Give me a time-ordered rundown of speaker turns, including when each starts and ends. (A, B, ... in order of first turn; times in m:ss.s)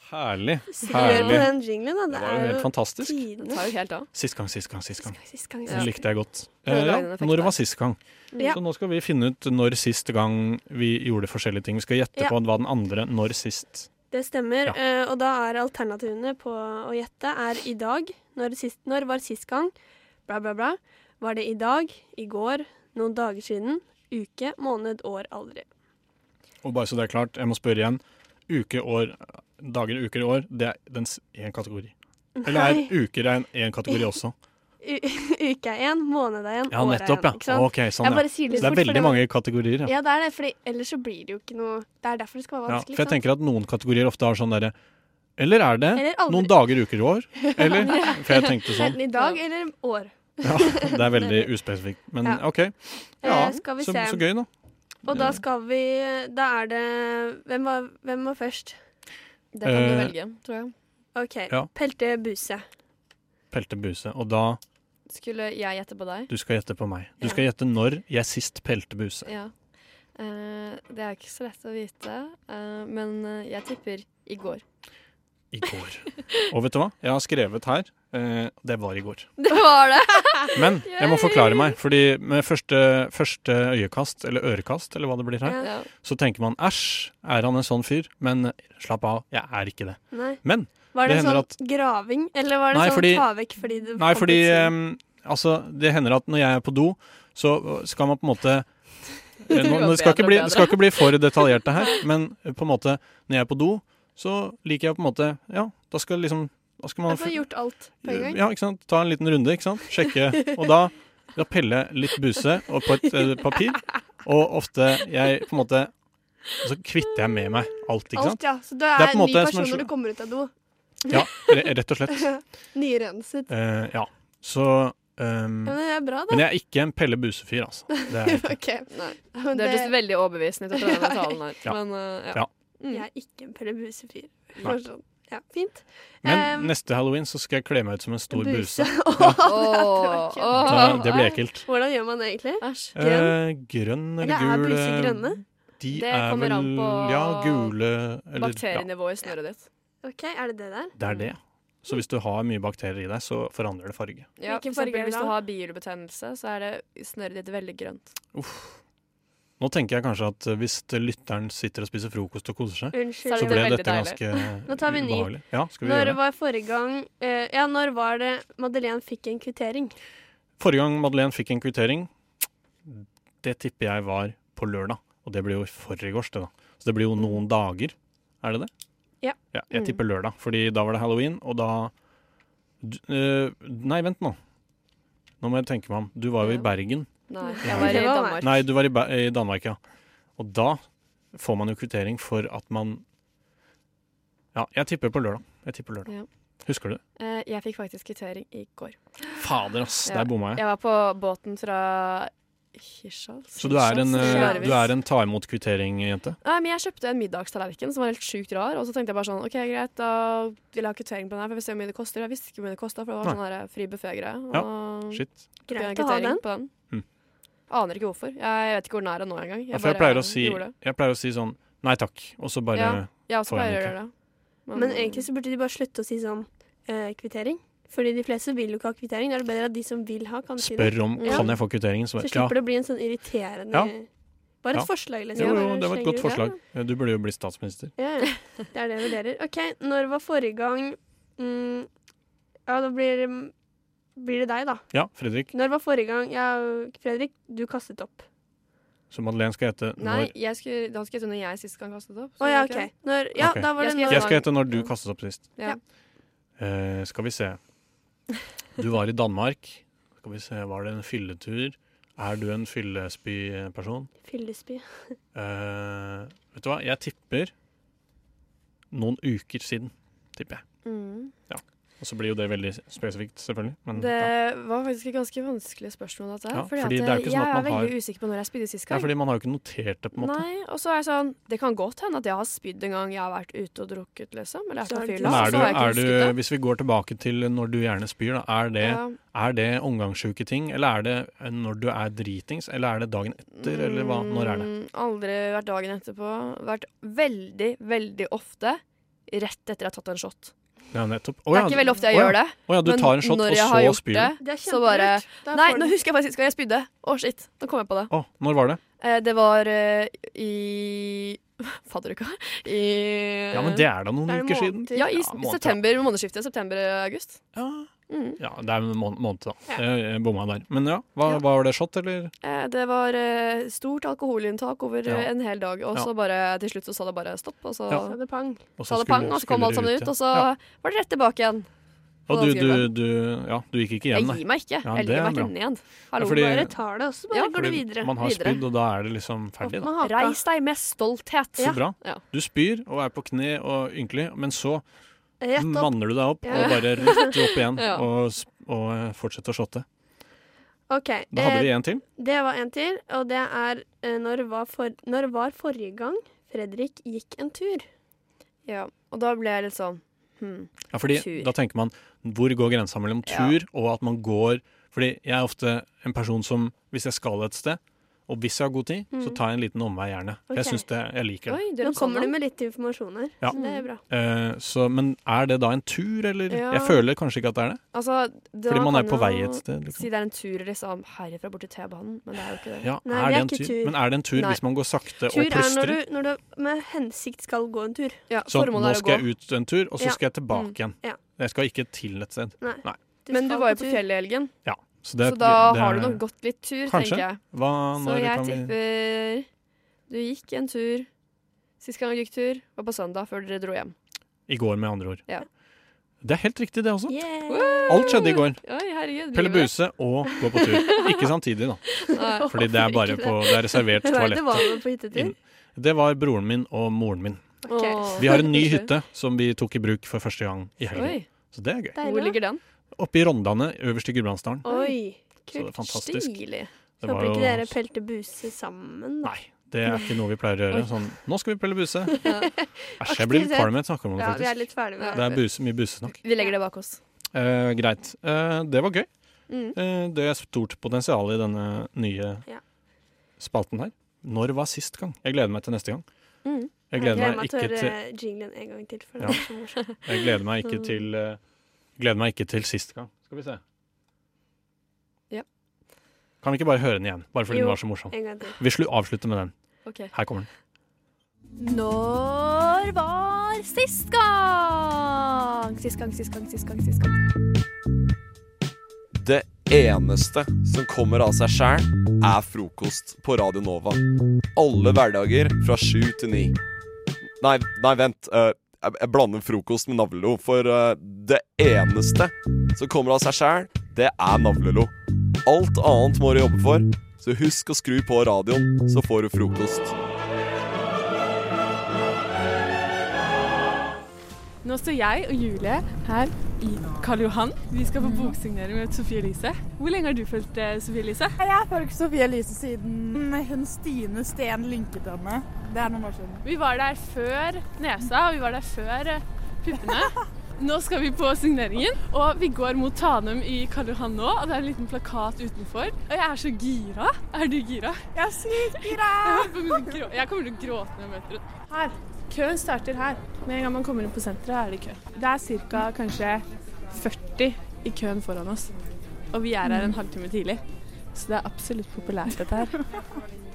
0:00.1-0:01.6 A
0:00.7-0:03.7 B
0:00.9-0:01.4 C
0:02.1-0:03.2 A
0:03.4-0:04.1 C
0:04.1-0:13.9 A
0:05.0-0:05.9 B
0:06.6-0:07.6 C
0:14.1-0:19.7 B
0:20.2-0:25.7 B
0:26.6-0:31.9 A
0:32.4-0:32.9 B
0:32.4-0:34.3 A
0:34.8-0:39.2 B
0:36.7-0:39.9 A
0:39.8-0:43.2 B
0:42.7-0:44.7 A
0:45.4-0:49.0 A
0:45.9-0:46.6 B
0:47.4-0:51.4 B
0:49.1-0:49.4 C
0:50.4-0:54.5 A
0:53.2-0:54.2 B
0:53.2-0:53.5 C
0:55.1-0:55.4 A
0:55.1-0:58.8 B
0:59.5-1:00.7 C
0:59.6-1:00.1 A
1:01.1-1:02.6 B
1:03.5-1:04.6 A
1:05.1-1:06.3 C
1:06.3-1:09.3 A
1:09.2-1:09.5 C
1:10.2-1:14.6 C
1:15.5-1:19.3 A
1:19.4-1:21.3 C
1:20.5-1:31.5 A
1:25.6-1:25.8 C
1:30.1-1:30.4 B
1:30.9-1:34.7 B
1:32.7-1:33.3 A
1:34.0-1:38.7 A
1:39.4-1:47.5 A
1:39.5-1:40.8 C
1:47.1-1:48.4 B
1:48.0-1:55.9 A
1:56.6-1:58.4 A
1:58.1-2:00.5 B
1:58.9-1:59.9 A
2:01.1-2:02.3 A
2:02.2-2:03.5 B
2:03.5-2:08.6 A
2:05.6-2:06.4 B
2:08.1-2:10.0 B
2:08.9-2:13.0 C
2:10.7-2:11.3 B
2:12.9-2:16.7 B
2:16.2-2:19.4 A
2:18.3-2:23.3 B
2:19.4-2:21.3 C
2:20.6-2:21.6 A
2:22.6-2:22.9 C
2:22.9-2:28.9 A
2:24.2-2:25.4 B
2:25.9-2:27.7 C
2:28.4-2:29.6 C
2:30.0-2:30.9 B
2:31.0-2:34.3 A
2:34.4-2:38.1 C
2:34.4-2:35.3 B
2:38.3-2:38.8 A
2:39.6-2:46.2 A
2:42.9-2:43.8 B
2:43.2-2:44.2 C
2:44.6-2:49.9 B
2:50.6-2:52.1 A
2:52.8-2:58.7 A
2:59.5-3:01.9 A
2:59.7-3:00.0 C
3:02.8-3:04.4 A
3:05.4-3:07.1 A
3:06.4-3:06.7 C
3:07.3-3:08.6 C
3:07.4-3:08.4 B
3:07.6-3:09.8 A
3:10.4-3:10.8 A
3:11.3-3:13.0 A
3:14.5-3:16.1 A
3:16.6-3:17.0 A
3:17.2-3:19.0 C
3:19.3-3:20.6 A
3:20.0-3:24.9 C
3:23.6-3:26.4 A
3:24.2-3:24.7 B
3:26.4-3:36.7 C
3:34.5-3:35.3 A
3:35.7-3:36.4 B
3:37.7-3:40.7 C
3:39.7-3:44.0 A
3:42.7-3:44.1 C
3:44.6-3:45.3 C
3:44.7-3:51.6 B
3:50.6-3:52.6 A
3:51.2-3:51.5 C
3:52.2-3:54.1 B
3:54.6-3:56.5 B
3:54.7-3:57.9 A
3:58.0-4:01.9 B
4:02.7-4:03.5 B
4:04.2-4:04.9 B
4:04.9-4:05.5 A
4:05.5-4:08.2 B
4:09.1-4:10.3 A
4:10.0-4:12.9 C
4:12.4-4:14.5 B
4:13.4-4:15.5 A
4:13.8-4:14.6 C
4:16.6-4:17.6 A
4:18.8-4:24.1 A
4:24.2-4:25.2 B
4:25.3-4:27.5 A
4:28.9-4:30.6 A
4:30.8-4:31.3 C
4:31.5-4:34.3 A
4:33.9-4:39.1 C
4:36.5-4:37.9 A
4:38.9-4:40.4 A
4:40.2-4:46.4 C
4:44.8-4:45.8 B
4:45.2-4:54.7 A
4:48.8-4:49.2 C
4:53.6-5:00.5 C
5:00.9-5:04.4 A
5:01.5-5:08.1 C
5:04.4-5:05.9 B
5:08.1-5:08.8 A
5:09.0-5:13.8 C
5:13.5-5:15.8 A
5:14.3-5:15.1 B
5:14.9-5:17.4 C
5:17.5-5:22.3 A
5:18.1-5:18.4 C
5:22.4-5:31.7 C
5:28.2-5:28.5 B
5:28.8-5:30.5 A
5:32.3-5:35.5 A
5:32.3-5:32.9 C
5:34.1-5:36.3 C
5:36.1-5:36.7 A
5:36.2-5:38.1 B
5:37.3-5:37.6 C
5:37.5-5:39.9 A
5:38.2-5:38.6 C
5:39.6-5:42.2 C
5:39.9-5:40.4 B
5:41.6-5:44.8 A
5:45.4-5:47.4 B
5:45.6-5:49.8 A
5:46.5-5:48.0 C
5:50.9-5:57.8 B
5:51.3-5:52.0 A
5:58.6-6:01.5 C
6:00.9-6:11.6 A
6:03.2-6:03.6 C
6:10.5-6:10.8 B
6:11.5-6:12.3 C
6:11.8-6:14.0 B
6:13.4-6:17.8 A
6:13.5-6:13.9 C
6:16.5-6:17.0 C
6:17.9-6:22.9 C
6:18.7-6:20.1 A
6:22.8-6:26.0 A
6:23.0-6:23.9 B
6:25.3-6:28.2 B
6:28.3-6:29.2 C
6:28.4-6:33.0 A
6:30.0-6:31.2 B
6:32.6-6:34.0 B
6:33.3-6:34.5 C
6:34.6-6:36.2 A
6:35.2-6:37.4 C
6:36.8-6:38.7 A
6:38.0-6:39.5 C
6:40.1-6:41.1 C
6:41.8-6:43.9 C
6:44.5-6:45.2 A
6:46.2-6:47.2 A
6:47.1-6:48.4 B
6:47.5-6:49.7 C
6:47.9-6:48.6 A
6:49.3-6:57.4 A
6:52.1-6:55.3 B
6:52.1-6:52.6 C
6:57.6-6:58.5 B
6:57.7-6:58.9 C
6:58.2-7:02.0 A
7:00.9-7:01.3 C
7:02.0-7:02.6 C
7:02.0-7:02.4 B
7:03.0-7:04.6 A
7:04.6-7:06.4 B
7:04.6-7:05.0 C
7:05.5-7:06.4 A
7:06.4-7:06.7 C
7:07.0-7:07.7 A
7:07.0-7:09.3 B
7:09.2-7:12.2 A
7:13.0-7:16.2 A
7:13.0-7:15.4 B
7:15.0-7:15.4 C
7:16.2-7:17.0 C
7:17.3-7:19.1 A
7:19.7-7:22.4 A
7:23.4-7:26.0 A
7:26.4-7:27.2 C
7:26.9-7:28.0 A
7:27.0-7:30.0 B
7:29.2-7:31.4 A
7:32.0-7:33.6 A
7:36.4-7:39.5 A
7:37.5-7:38.6 B
7:39.8-7:40.1 C
7:40.1-7:40.5 A
7:41.6-7:47.1 C
7:49.1-7:54.0 D
7:54.5-7:56.6 D
7:57.4-8:04.9 D
8:05.4-8:09.9 D
8:14.6-8:21.4 E
8:18.0-8:18.3 F
8:21.4-8:26.4 F
8:26.4-8:38.1 E
8:38.1-8:39.9 F
8:38.8-8:48.7 E
8:49.3-8:50.6 E
8:51.1-8:52.8 E